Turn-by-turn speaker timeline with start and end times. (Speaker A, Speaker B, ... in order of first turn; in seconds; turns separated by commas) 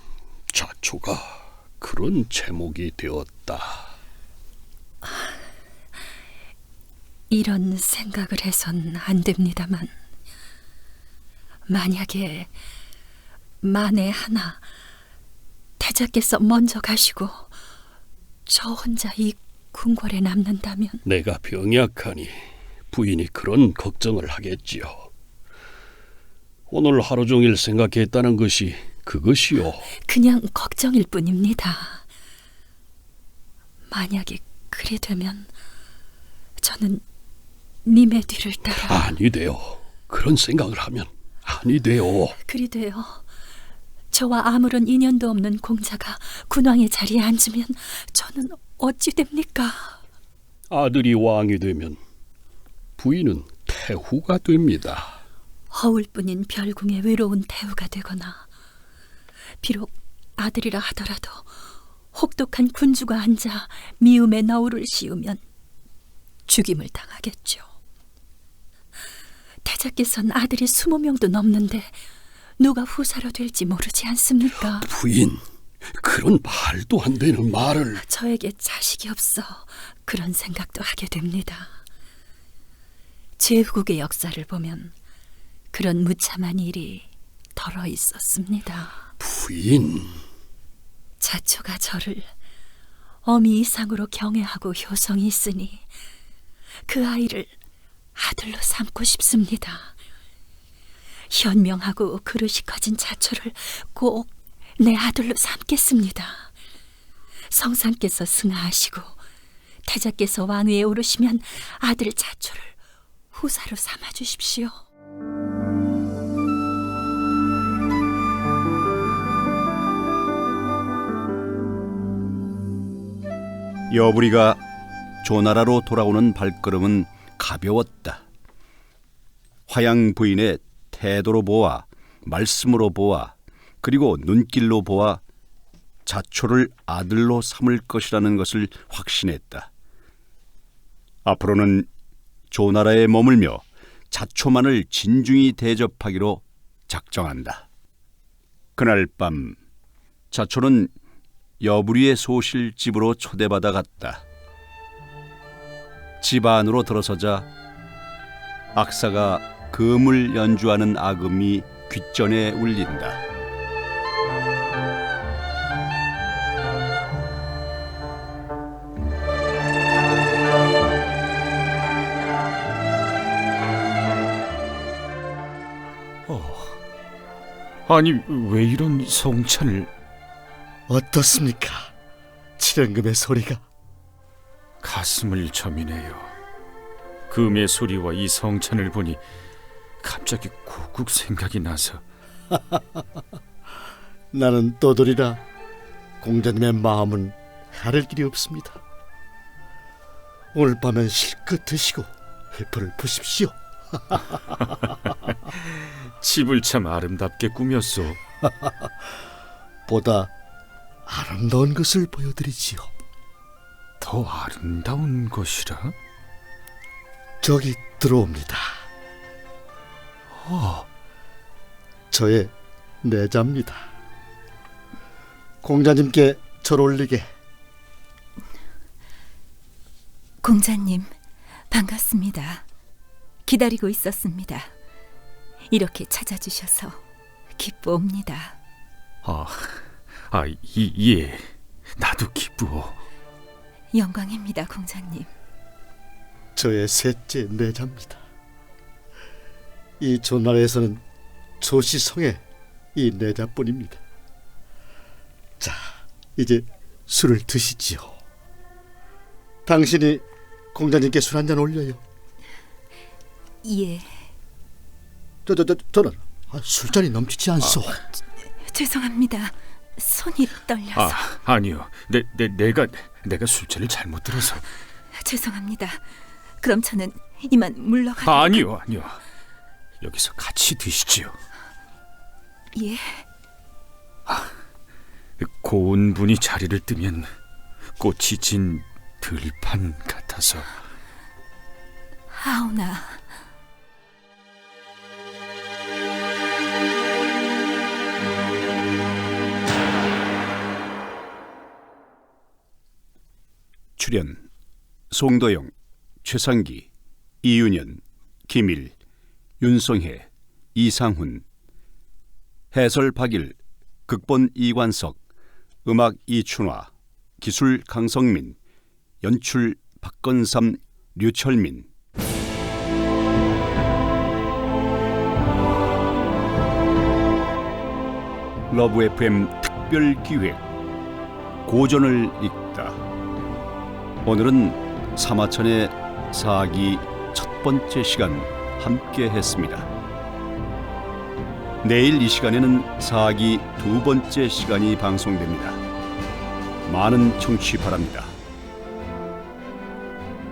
Speaker A: 0.5-3.8, Speaker B: 7.3-9.9, Speaker B: 11.7-12.5, Speaker B: 13.6-14.6, Speaker B: 15.8-17.5, Speaker B: 18.4-21.0, Speaker A: 21.0-22.4, Speaker A: 22.9-25.1, Speaker A: 26.7-29.9, Speaker B: 30.0-32.0, Speaker B: 33.9-35.5, Speaker B: 36.6-37.0, Speaker B: 37.8-39.1, Speaker A: 38.8-42.3, Speaker B: 42.4-43.2, Speaker B: 44.1-50.0, Speaker A: 50.7-52.0, Speaker A: 53.0-55.2, Speaker B: 55.7-58.4, Speaker B: 59.6-61.5, Speaker B: 62.1-65.4, Speaker B: 66.5-67.7, Speaker B: 69.6-72.0, Speaker B: 72.6-74.9, Speaker A: 74.8-78.0, Speaker B: 78.0-81.7, Speaker B: 83.4-84.9, Speaker B: 85.7-89.0, Speaker A: 89.2-90.2, Speaker B: 91.2-92.3, Speaker B: 93.2-95.8, Speaker B: 96.9-97.5, Speaker B: 98.1-99.9, Speaker B: 101.3-106.5, Speaker B: 107.5-109.1, Speaker B: 109.8-112.8, Speaker B: 113.3-114.8, Speaker C: 123.9-124.6, Speaker C: 125.2-128.2, Speaker C: 129.7-135.2, Speaker C: 136.1-139.7, Speaker C: 141.2-141.9, Speaker C: 142.5-147.6, Speaker C: 148.8-149.6, Speaker C: 150.3-150.9, Speaker C: 151.6-154.2, Speaker C: 156.2-157.5, Speaker C: 158.7-163.2, Speaker D: 176.3-176.8, Speaker D: 177.9-179.9, Speaker E: 180.9-181.9, Speaker E: 182.6-183.6, Speaker D: 184.8-186.3, Speaker D: 187.3-189.2, Speaker D: 190.0-192.0, Speaker E: 192.5-193.0, Speaker E: 194.3-195.4, Speaker E: 196.2-198.8, Speaker E: 200.5-204.5, Speaker D: 206.2-208.2, Speaker E: 208.4-208.9, Speaker E: 209.9-210.3, Speaker E: 211.1-212.9, Speaker D: 214.0-215.9, Speaker E: 217.4-218.8, Speaker D: 220.3-220.8, Speaker E: 222.1-223.9, Speaker E: 225.6-227.3, Speaker F: 230.4-231.2, Speaker F: 231.7-232.7, Speaker F: 233.4-234.7, Speaker F: 235.7-237.0, Speaker F: 237.6-238.6, Speaker D: 239.2-243.0, Speaker F: 243.9-245.3, Speaker E: 246.6-248.2, Speaker E: 250.0-251.0, Speaker E: 251.6-252.4, Speaker E: 252.9-254.0, Speaker E: 255.6-258.1, Speaker E: 259.6-262.0, Speaker F: 263.6-264.3, Speaker E: 265.4-268.0, Speaker F: 268.6-271.2, Speaker D: 270.9-274.6, Speaker F: 275.2-278.6, Speaker D: 278.2-279.2, Speaker D: 280.0-281.3, Speaker F: 282.7-283.2, Speaker D: 285.4-287.3, Speaker D: 288.0-290.7, Speaker F: 292.3-293.4, Speaker C: 304.0-304.4, Speaker C: 305.1-305.7, Speaker C: 306.2-306.9, Speaker C: 307.4-308.9, Speaker C: 309.6-311.4, Speaker C: 312.7-313.6, Speaker C: 314.1-315.2, Speaker C: 315.8-316.9, Speaker C: 317.4-318.6, Speaker C: 319.2-321.9, Speaker C: 328.7-330.6, Speaker C: 331.6-333.0, Speaker C: 334.2-339.9, Speaker C: 341.8-345.8, Speaker C: 346.9-348.4